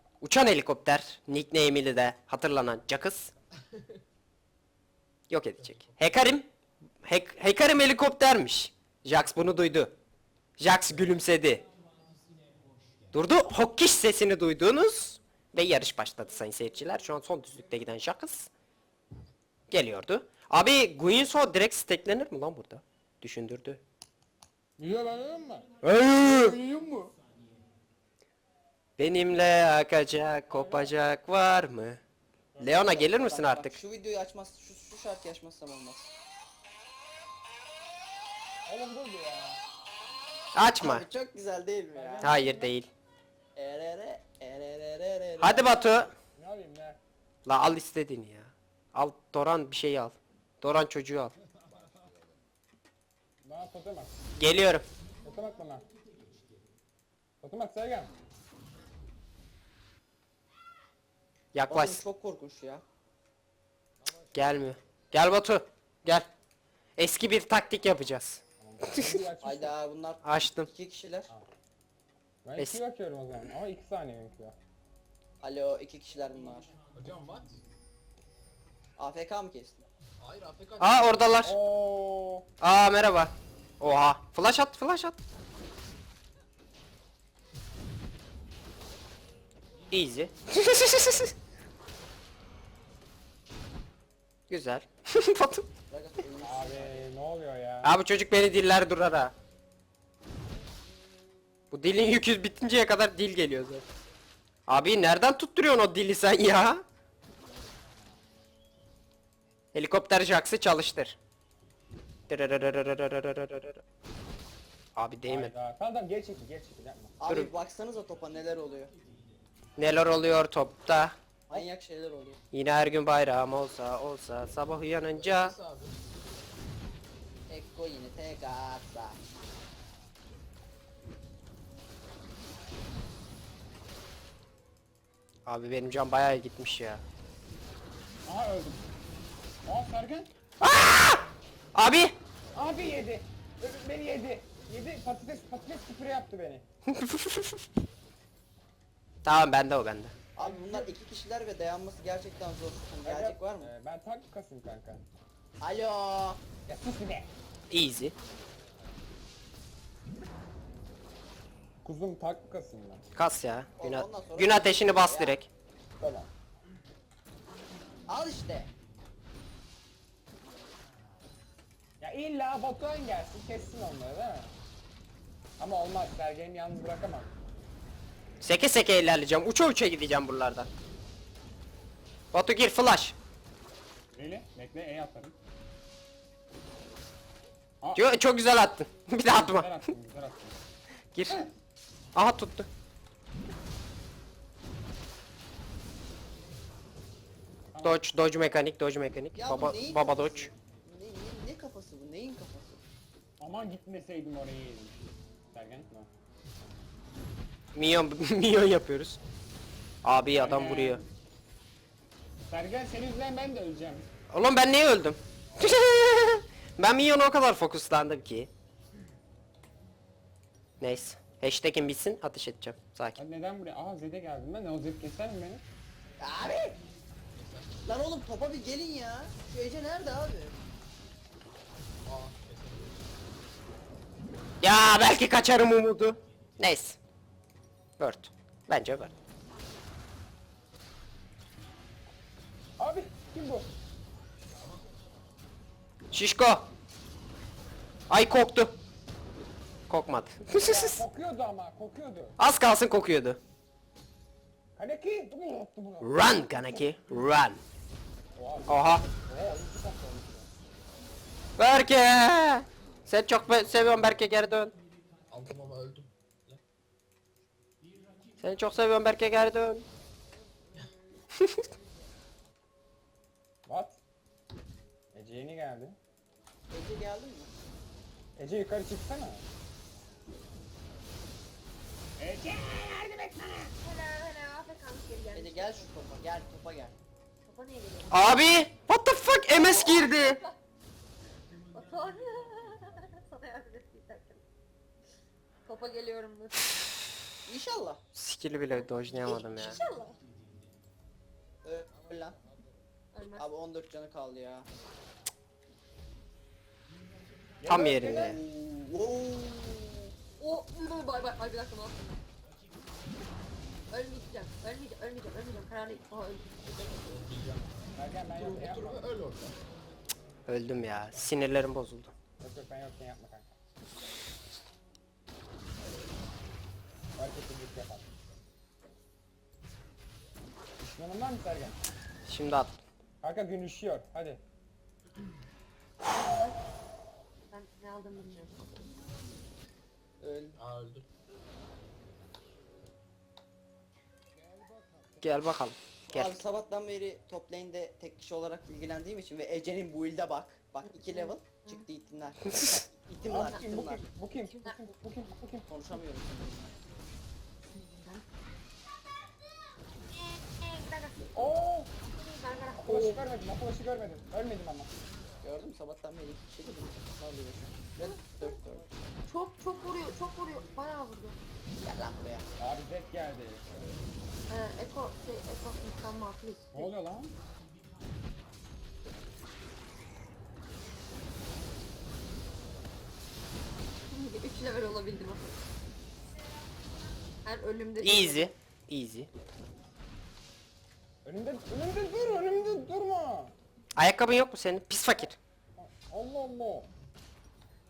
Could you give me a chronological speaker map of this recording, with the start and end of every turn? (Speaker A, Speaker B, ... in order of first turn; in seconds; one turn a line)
Speaker A: 0.2-3.3
Speaker A: 5.3-6.5
Speaker B: 5.5-5.9
Speaker A: 7.0-9.9
Speaker A: 10.6-11.7
Speaker A: 13.1-18.5
Speaker A: 19.7-23.8
Speaker C: 24.8-25.7
Speaker A: 25.8-26.6
Speaker C: 26.2-27.1
Speaker A: 29.0-32.0
Speaker C: 30.5-30.9
Speaker C: 32.5-33.1
Speaker A: 32.6-33.8
Speaker D: 32.9-36.1
Speaker C: 38.7-39.6
Speaker A: 40.5-41.0
Speaker D: 40.8-42.3
Speaker C: 41.9-42.7
Speaker A: 42.2-42.9
Speaker D: 43.5-46.0
Speaker A: 45.4-46.1
Speaker C: 46.3-47.0
Speaker A: 47.5-51.3
Speaker C: 53.4-54.2
Speaker A: 54.4-54.8
Speaker C: 55.2-55.8
Speaker C: 57.4-58.1
Speaker A: 61.5-62.0
Speaker D: 61.7-62.8
Speaker A: 64.3-66.3
Speaker A: 67.0-69.2
Speaker C: 68.6-69.8
Speaker D: 69.4-71.3
Speaker A: 70.2-70.7
Speaker C: 72.4-74.6
Speaker D: 75.4-76.7
Speaker B: 76.9-77.6
Speaker D: 79.0-79.8
Speaker B: 80.2-81.3
Speaker A: 80.8-81.5
Speaker C: 81.4-82.5
Speaker A: 82.6-85.2
Speaker A: 89.9-91.3
Speaker A: 94.5-95.7
Speaker D: 95.9-97.1
Speaker C: 96.4-97.9
Speaker A: 97.8-99.3
Speaker A: 101.7-103.8
Speaker A: 104.7-106.8
Speaker A: 109.7-111.2
Speaker A: 112.3-113.8
Speaker A: 115.0-115.5
Speaker C: 115.2-117.2
Speaker D: 117.2-118.9
Speaker A: 119.8-121.1
Speaker D: 121.5-122.4
Speaker A: 122.5-125.5
Speaker B: 125.1-126.0
Speaker D: 127.5-129.2
Speaker A: 135.4-137.0
Speaker C: 138.2-138.9
Speaker C: 139.6-140.3
Speaker A: 140.6-142.1
Speaker C: 142.5-146.6
Speaker A: 146.9-147.6
Speaker A: 149.2-150.1
Speaker D: 150.3-153.7
Speaker C: 150.4-150.9
Speaker C: 153.0-155.0
Speaker D: 155.6-156.4
Speaker C: 156.7-157.3
Speaker A: 157.7-158.1
Speaker C: 161.8-163.0
Speaker A: 163.1-165.5
Speaker D: 163.8-165.4
Speaker C: 166.0-166.3
Speaker D: 168.1-168.7
Speaker C: 172.0-174.5
Speaker C: 175.6-177.3
Speaker A: 178.4-180.7
Speaker A: 182.3-183.2
Speaker C: 184.1-185.3
Speaker A: 187.9-189.7
Speaker C: 189.3-190.6
Speaker A: 191.1-191.4
Speaker A: 192.1-192.7
Speaker C: 197.7-198.1
Speaker A: 197.8-200.5
Speaker D: 199.3-202.8
Speaker C: 203.4-206.1
Speaker A: 207.7-209.2
Speaker A: 210.0-211.0
Speaker C: 210.3-211.1
Speaker C: 212.4-214.1
Speaker A: 214.3-218.5
Speaker A: 220.8-223.2
Speaker C: 223.2-225.6
Speaker D: 226.2-226.8
Speaker B: 227.3-227.7
Speaker D: 227.8-230.6
Speaker B: 232.1-233.1
Speaker A: 234.6-237.0
Speaker A: 238.0-239.1
Speaker C: 242.8-243.7
Speaker A: 246.1-246.7
Speaker A: 248.1-248.7
Speaker A: 249.9-251.0
Speaker C: 250.5-252.4
Speaker A: 252.4-253.4
Speaker C: 254.8-256.8
Speaker A: 256.0-257.6
Speaker C: 258.3-260.5
Speaker A: 258.7-259.1
Speaker A: 261.6-264.7
Speaker B: 265.3-266.6
Speaker A: 268.4-269.8
Speaker C: 273.6-274.0
Speaker C: 275.1-276.0
Speaker D: 276.7-277.5
Speaker C: 278.4-279.4
Speaker C: 282.2-283.7
Speaker E: 283.8-285.9
Speaker D: 285.3-286.9
Speaker E: 287.5-288.4
Speaker A: 288.1-290.4
Speaker E: 289.5-290.6
Speaker E: 291.7-294.4
Speaker E: 295.6-296.7
Speaker D: 297.4-298.0
Speaker A: 298.1-299.8
Speaker E: 299.2-300.2
Speaker D: 301.6-302.4
Speaker E: 303.1-303.5
Speaker D: 303.4-304.7
Speaker C: 307.6-308.4
Speaker A: 307.7-308.4
Speaker D: 308.2-310.1
Speaker E: 310.4-312.2
Speaker E: 313.9-316.6
Speaker B: 316.6-317.8
Speaker C: 317.9-319.1
Speaker B: 318.3-319.6
Speaker A: 320.5-322.1
Speaker C: 322.4-323.5
Speaker C: 327.1-328.1
Speaker C: 330.8-331.8
Speaker A: 332.3-332.8
Speaker C: 333.2-334.4
Speaker E: 336.1-336.6
Speaker E: 337.5-338.9
Speaker D: 340.2-340.6
Speaker B: 340.6-341.0
Speaker A: 345.2-346.4
Speaker D: 346.1-354.0
Speaker E: 350.9-351.8
Speaker C: 353.3-355.7
Speaker E: 353.3-353.7
Speaker D: 355.7-356.7
Speaker E: 357.7-358.2
Speaker E: 360.1-361.5
Speaker C: 361.3-361.9
Speaker E: 362.0-363.2
Speaker C: 362.8-364.9
Speaker D: 365.4-368.8
Speaker E: 368.0-368.5
Speaker E: 369.3-371.4
Speaker D: 371.8-372.5
Speaker C: 372.6-373.7
Speaker E: 374.5-376.9
Speaker C: 376.7-377.4
Speaker E: 384.1-385.6
Speaker E: 387.4-388.5
Speaker A: 388.0-389.3
Speaker C: 391.2-393.5
Speaker A: 394.0-395.4
Speaker C: 395.8-396.9